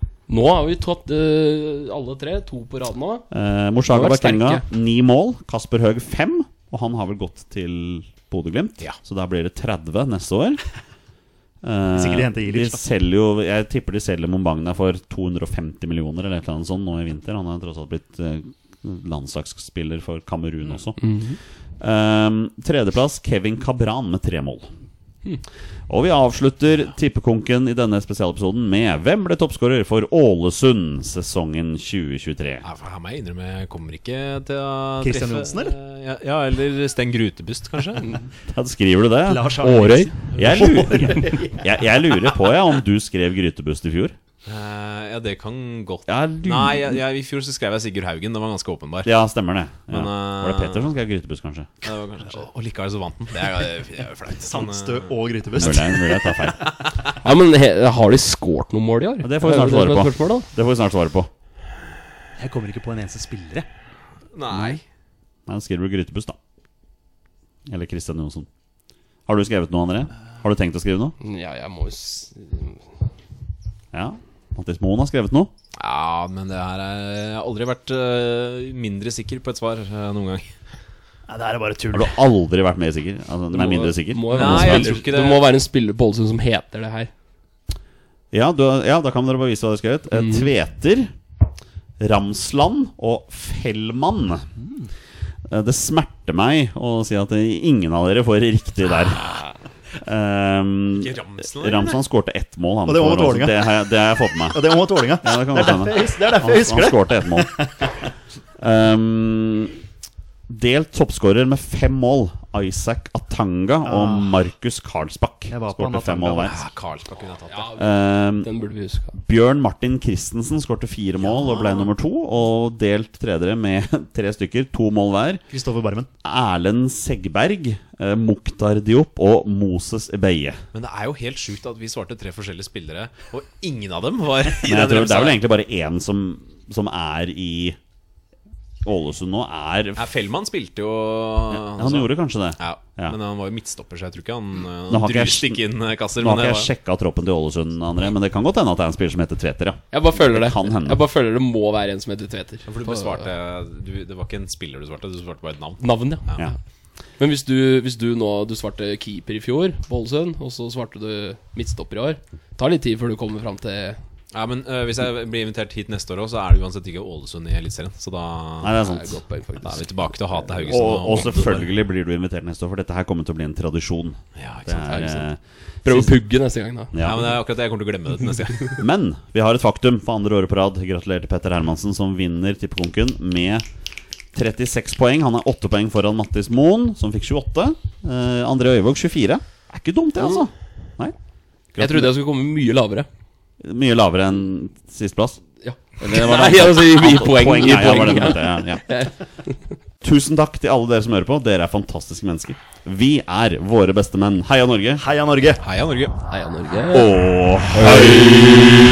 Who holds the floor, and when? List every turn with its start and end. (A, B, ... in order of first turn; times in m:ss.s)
0:00.3-0:03.3 A
0:03.3-0:10.6 B
0:03.9-0:04.7 A
0:11.6-0:21.1 B
0:11.9-0:12.8 C
0:21.0-0:21.4 A
0:21.8-0:24.7 B
0:25.9-0:32.6 B
0:32.6-0:38.2 D
0:35.0-0:35.8 C
0:38.5-0:39.6 B
0:39.2-0:41.6 C
0:39.6-0:40.1 A
0:40.3-0:44.2 B
0:44.4-0:49.1 D
0:46.1-0:47.0 B
0:49.0-0:51.7 B
0:49.9-0:50.9 D
0:51.8-0:55.6 D
0:54.4-0:56.7 C
0:55.6-0:56.7 B
0:57.2-1:00.5 A
0:59.2-1:01.3 B
1:02.4-1:03.7 C
1:04.3-1:04.8 D
1:04.5-1:04.8 B
1:05.5-1:06.4 B
1:07.7-1:08.5 B
1:09.3-1:11.2 B
1:11.2-1:12.8 A
1:13.9-1:15.5 B
1:15.8-1:20.5 D
1:21.3-1:22.2 C
1:21.9-1:25.0 B
1:23.5-1:27.1 A
1:24.3-1:25.5 D
1:28.3-1:31.1 B
1:30.2-1:30.5 A
1:32.0-1:34.5 B
1:34.6-1:34.9 C
1:35.5-1:39.4 B
1:40.0-1:47.5 B
1:40.9-1:42.0 D
1:42.9-1:43.7 C
1:44.5-1:47.9 C
1:48.6-1:49.8 B
1:50.5-1:56.6 B
1:53.8-1:54.3 C
1:55.5-1:56.6 C
1:56.4-1:57.8 D
1:57.5-1:59.1 A
1:57.8-1:58.5 B
1:59.1-2:05.4 B
2:05.5-2:06.1 C
2:06.2-2:10.6 B
2:10.7-2:15.4 D
2:14.6-2:17.8 B
2:18.8-2:20.1 B
2:20.0-2:26.7 D
2:21.5-2:23.2 B
2:24.9-2:25.6 B
2:26.2-2:31.0 B
2:29.9-2:33.3 A
2:32.7-2:36.4 D
2:35.8-2:36.2 A
2:37.2-2:44.0 A
2:44.3-2:48.8 D
2:48.6-2:49.2 B
2:48.8-2:49.9 A
2:49.6-2:51.7 D
2:50.7-2:56.2 B
2:54.4-2:55.1 D
2:54.9-2:55.2 A
2:55.8-2:57.0 A
2:56.9-2:57.4 B
2:57.0-2:58.8 D
2:58.8-3:03.6 B
3:04.3-3:11.1 B
3:11.7-3:12.1 B
3:11.8-3:13.1 A
3:13.6-3:15.4 B
3:15.6-3:19.2 A
3:16.0-3:19.0 B
3:20.0-3:25.0 B
3:25.0-3:25.6 C
3:25.6-3:26.2 D
3:26.3-3:27.2 A
3:26.9-3:28.7 B
3:27.7-3:28.8 A